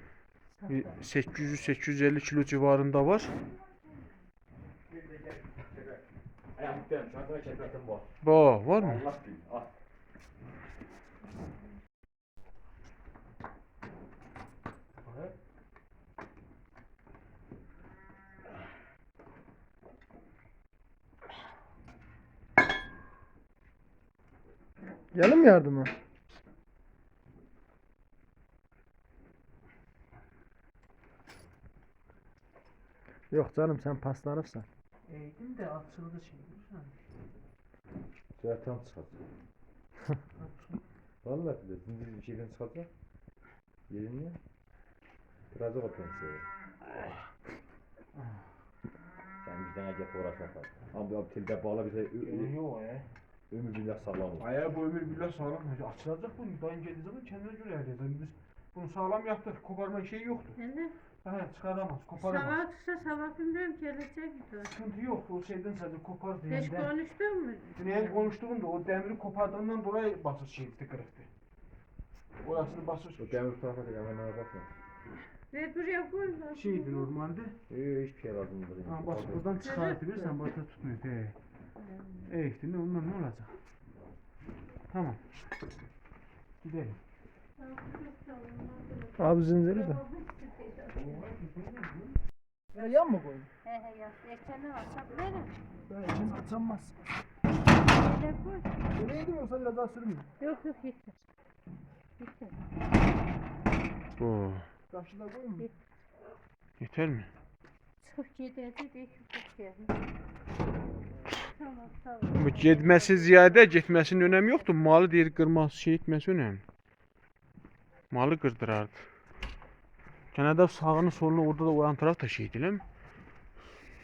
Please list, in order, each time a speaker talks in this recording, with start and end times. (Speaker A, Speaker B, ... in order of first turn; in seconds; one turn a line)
Speaker A: 0.7-3.3
Speaker B: 4.9-6.0
Speaker B: 6.6-8.1
Speaker A: 8.2-9.1
Speaker B: 8.7-9.7
Speaker A: 15.0-15.3
Speaker C: 25.1-25.9
Speaker C: 33.3-34.7
Speaker A: 35.1-37.0
Speaker B: 38.4-39.2
Speaker A: 40.4-40.8
Speaker B: 41.2-42.9
Speaker B: 43.9-44.4
Speaker B: 45.5-46.5
Speaker A: 48.1-48.5
Speaker B: 49.4-52.5
Speaker A: 52.2-53.1
Speaker B: 53.5-54.5
Speaker A: 54.4-60.6
Speaker D: 60.6-61.0
Speaker A: 61.2-62.6
Speaker D: 62.2-64.7
Speaker A: 64.6-66.9
Speaker D: 66.5-67.8
Speaker A: 67.8-71.3
Speaker A: 72.4-73.4
Speaker B: 73.2-74.7
Speaker D: 75.5-77.1
Speaker A: 76.5-77.6
Speaker B: 77.7-79.6
Speaker A: 78.8-81.4
Speaker D: 79.6-80.3
Speaker D: 81.8-82.3
Speaker A: 82.3-83.5
Speaker A: 84.9-85.2
Speaker A: 86.6-87.0
Speaker D: 87.6-91.2
Speaker C: 89.2-90.0
Speaker A: 90.9-92.1
Speaker C: 92.7-93.5
Speaker D: 93.7-95.5
Speaker C: 95.9-97.0
Speaker D: 97.8-98.7
Speaker C: 98.9-100.3
Speaker D: 100.4-101.2
Speaker D: 102.2-102.6
Speaker A: 104.2-104.7
Speaker C: 104.9-105.7
Speaker A: 106.8-107.3
Speaker D: 108.0-110.0
Speaker D: 111.4-114.5
Speaker A: 112.3-116.6
Speaker A: 118.1-119.0
Speaker A: 120.3-122.8